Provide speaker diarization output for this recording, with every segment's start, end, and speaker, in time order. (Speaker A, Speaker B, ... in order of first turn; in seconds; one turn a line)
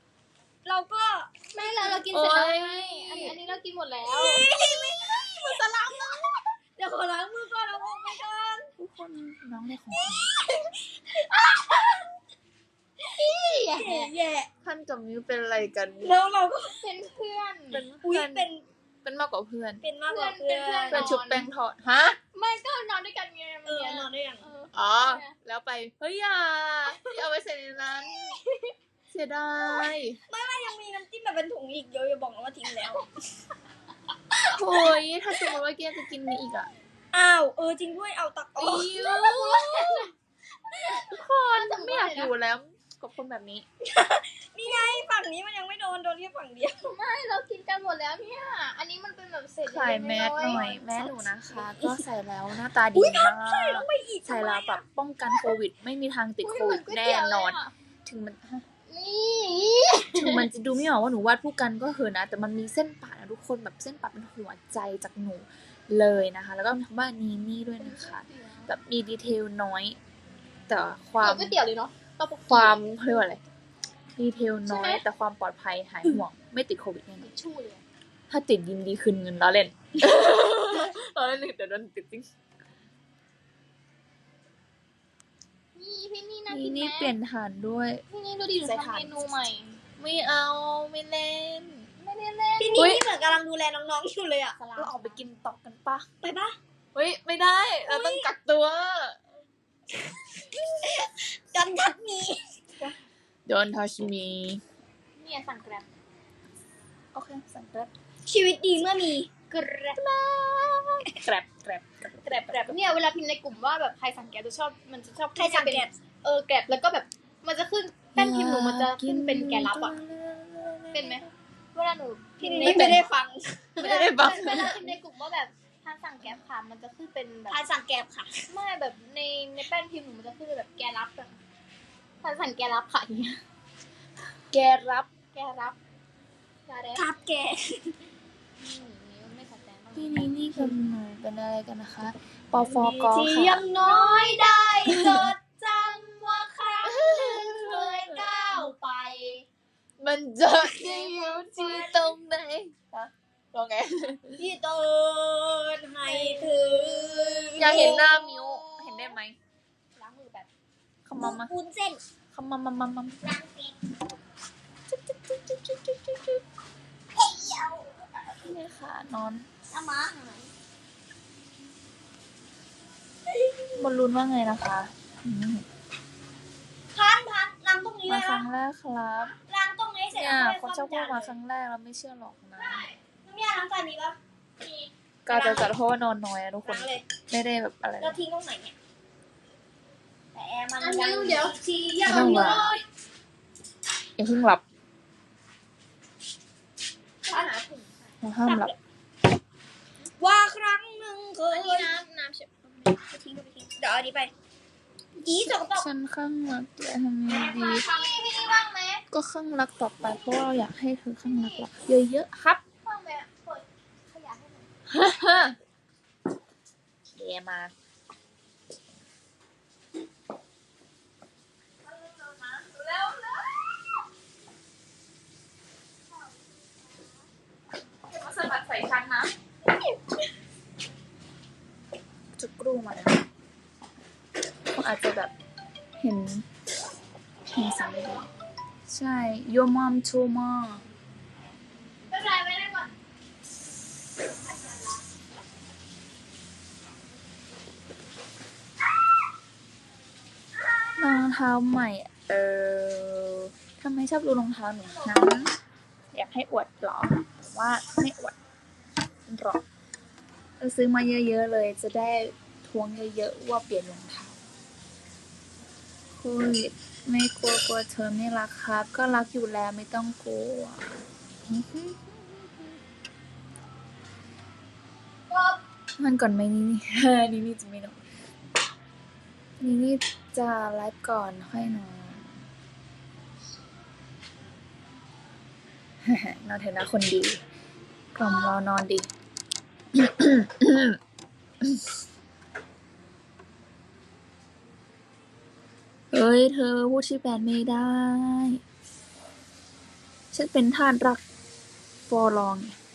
Speaker A: 0.6-2.1
Speaker B: 1.5-4.5
Speaker C: 2.1-3.3
Speaker A: 4.0-8.7
Speaker C: 8.8-10.3
Speaker A: 9.9-12.1
Speaker B: 13.1-14.1
Speaker A: 13.7-14.5
Speaker C: 14.6-16.2
Speaker A: 16.0-16.8
Speaker B: 16.8-17.9
Speaker C: 17.7-18.5
Speaker A: 18.0-18.6
Speaker C: 19.0-19.8
Speaker A: 19.8-21.1
Speaker B: 20.1-21.5
Speaker C: 20.9-22.2
Speaker B: 22.3-25.3
Speaker A: 23.6-24.5
Speaker C: 24.7-28.4
Speaker C: 29.1-30.2
Speaker A: 29.6-33.1
Speaker A: 34.3-35.0
Speaker C: 34.4-36.7
Speaker A: 37.1-40.1
Speaker B: 38.6-40.1
Speaker B: 40.7-42.3
Speaker A: 40.7-41.2
Speaker C: 41.5-43.6
Speaker A: 43.8-47.0
Speaker B: 44.6-45.0
Speaker B: 46.8-51.1
Speaker C: 49.6-58.6
Speaker A: 50.5-52.0
Speaker A: 52.9-54.8
Speaker B: 56.4-57.7
Speaker B: 58.9-60.5
Speaker C: 60.1-70.0
Speaker B: 67.8-68.7
Speaker C: 70.7-71.5
Speaker B: 71.2-72.8
Speaker C: 72.5-73.4
Speaker C: 74.2-77.3
Speaker B: 74.7-75.0
Speaker B: 77.2-77.8
Speaker C: 78.3-82.3
Speaker B: 85.7-87.1
Speaker C: 86.5-88.0
Speaker B: 88.1-89.8
Speaker C: 88.6-89.2
Speaker C: 90.0-91.9
Speaker B: 92.0-93.1
Speaker A: 92.6-94.6
Speaker C: 92.8-93.0
Speaker B: 94.6-95.2
Speaker C: 94.7-96.0
Speaker A: 96.2-96.6
Speaker C: 96.9-99.2
Speaker A: 97.8-98.3
Speaker A: 100.4-102.6
Speaker C: 103.5-104.6
Speaker B: 105.2-105.8
Speaker C: 107.1-107.9
Speaker A: 108.2-109.3
Speaker B: 109.5-110.0
Speaker C: 110.0-112.8
Speaker B: 112.2-120.0
Speaker A: 115.3-115.9
Speaker C: 118.2-121.3
Speaker B: 120.9-123.0
Speaker A: 122.4-124.1
Speaker C: 122.6-123.0
Speaker C: 123.8-124.9
Speaker B: 123.8-127.6
Speaker A: 127.5-128.5
Speaker B: 128.5-131.3
Speaker B: 132.2-133.4
Speaker C: 134.5-135.1
Speaker B: 135.3-135.8
Speaker B: 136.7-137.1
Speaker A: 136.9-138.0
Speaker B: 138.6-140.8
Speaker C: 139.9-143.6
Speaker A: 142.6-149.4
Speaker B: 143.8-144.8
Speaker C: 144.8-145.3
Speaker C: 146.8-148.1
Speaker B: 147.7-148.8
Speaker C: 150.0-154.3
Speaker B: 150.7-151.7
Speaker A: 150.8-152.1
Speaker A: 154.4-159.1
Speaker B: 156.1-156.6
Speaker C: 157.6-159.3
Speaker B: 157.6-158.0
Speaker B: 160.0-160.4
Speaker A: 160.1-160.4
Speaker C: 161.1-161.5
Speaker A: 161.2-162.0
Speaker C: 162.3-163.2
Speaker A: 163.2-163.8
Speaker C: 165.1-166.4
Speaker A: 167.1-168.0
Speaker C: 168.4-169.5
Speaker A: 169.7-170.5
Speaker A: 173.2-173.8
Speaker C: 173.7-175.7
Speaker A: 176.9-178.5
Speaker C: 178.1-179.3
Speaker A: 179.3-181.3
Speaker C: 180.1-182.9
Speaker A: 182.6-184.2
Speaker B: 184.6-184.9
Speaker C: 185.2-188.2
Speaker A: 185.3-185.7
Speaker A: 186.6-187.0
Speaker A: 188.0-188.8
Speaker A: 190.3-192.8
Speaker B: 190.8-192.8
Speaker C: 192.0-192.7
Speaker C: 194.2-194.6
Speaker B: 197.2-198.0
Speaker C: 198.2-198.7
Speaker A: 198.4-198.8
Speaker A: 200.2-201.9
Speaker B: 201.5-203.0
Speaker A: 203.0-204.3
Speaker C: 205.2-207.8
Speaker A: 205.2-205.9
Speaker B: 207.3-209.0
Speaker C: 209.1-212.6
Speaker B: 211.2-211.7
Speaker B: 212.8-214.7
Speaker C: 214.9-215.5
Speaker C: 217.2-217.7
Speaker C: 221.9-223.4
Speaker C: 228.1-229.3
Speaker C: 232.4-233.2
Speaker C: 234.8-235.3
Speaker C: 236.0-236.4
Speaker C: 237.5-238.2
Speaker C: 238.9-240.8
Speaker B: 242.1-242.9
Speaker C: 251.0-255.5
Speaker C: 256.1-258.4
Speaker C: 259.3-259.6
Speaker C: 260.6-264.4
Speaker C: 266.2-270.8
Speaker C: 271.5-272.4
Speaker A: 275.3-275.6
Speaker C: 276.0-278.0
Speaker C: 279.6-282.4
Speaker C: 286.0-287.4
Speaker C: 288.1-289.1
Speaker C: 289.9-291.0
Speaker C: 296.1-298.6
Speaker C: 300.3-301.2
Speaker C: 302.1-302.8